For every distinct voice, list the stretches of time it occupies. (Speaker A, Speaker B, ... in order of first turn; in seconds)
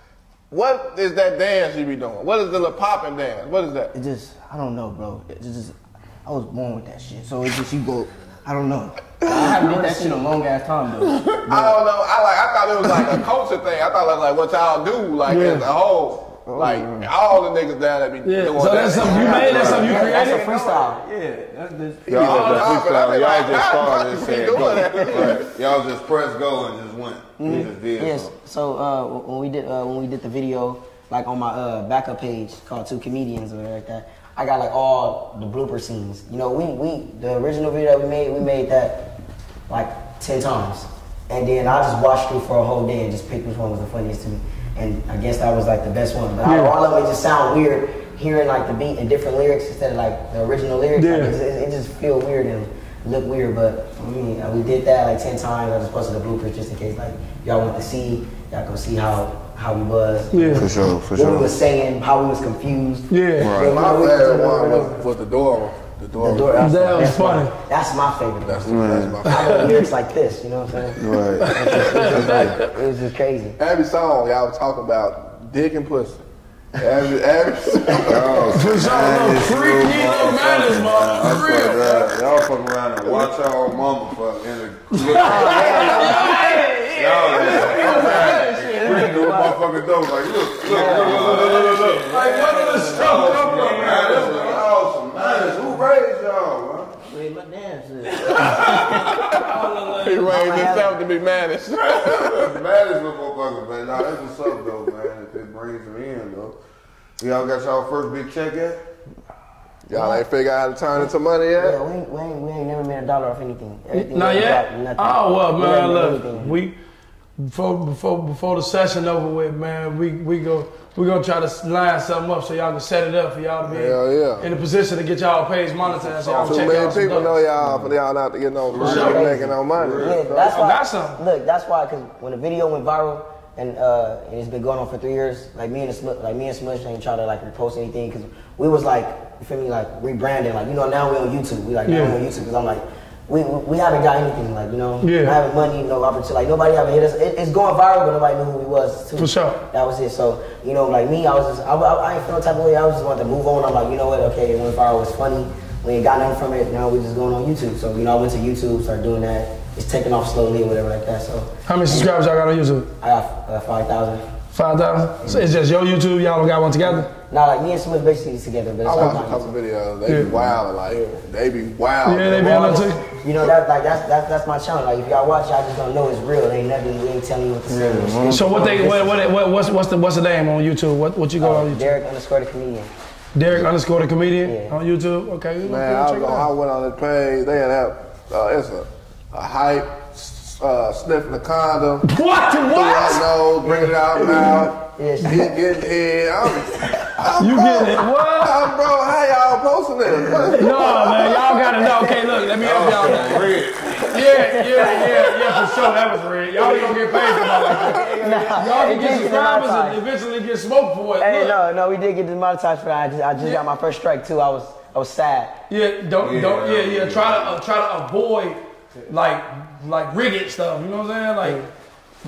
Speaker A: 0.5-3.9, 9.3-9.6, 11.5-19.9, 22.1-25.5, 63.5-66.7, 68.4-69.8, 72.0-72.5, 73.6-76.2, 76.8-78.6, 85.3-86.1, 87.9-88.2, 98.7-102.5, 109.9-111.8, 123.6-124.5, 126.0-130.2, 168.8-172.9, 185.6-201.3, 207.7-208.1
Speaker B: 3.9-11.7, 19.8-22.7, 85.6-89.5, 90.8-95.7, 97.0-99.2
Speaker C: 9.3-9.6, 18.9-21.0, 27.4-39.1, 39.7-65.0, 66.2-73.6, 85.2-86.3, 87.8-89.6, 90.6-91.6, 100.2-100.9, 109.9-110.2, 111.6-116.6, 128.8-162.1, 163.0-164.2, 167.1-169.5, 172.3-179.2, 181.4-182.9, 184.4-184.8, 193.6-195.6, 200.7-203.5, 204.1-205.3, 206.7-210.0, 211.2-215.6
Speaker D: 15.2-15.7, 18.2-20.5, 46.5-46.7, 51.0-51.3, 60.3-60.7, 63.1-63.5, 66.6-67.5, 69.3-69.8, 71.4-72.6, 78.5-82.1, 85.0-88.9, 90.8-94.6, 98.1-100.7, 113.9-116.7, 117.4-127.4, 128.8-129.2, 130.4-131.2, 141.9-142.1, 145.0-145.3, 149.2-149.6, 161.7-162.9, 164.5-167.1, 170.1-170.3, 172.0-173.0, 178.3-182.0, 183.3-186.5, 192.0-193.3, 197.4-198.7, 200.6-211.6, 215.7-221.7
Speaker E: 16.5-17.0, 19.1-19.9, 22.1-28.3, 60.5-61.5, 63.4-63.8, 68.6-69.2, 71.0-72.5, 78.0-96.9, 101.7-106.6, 107.2-108.8, 128.7-130.5, 170.1-170.6, 177.7-179.0, 202.6-204.2, 216.2-217.6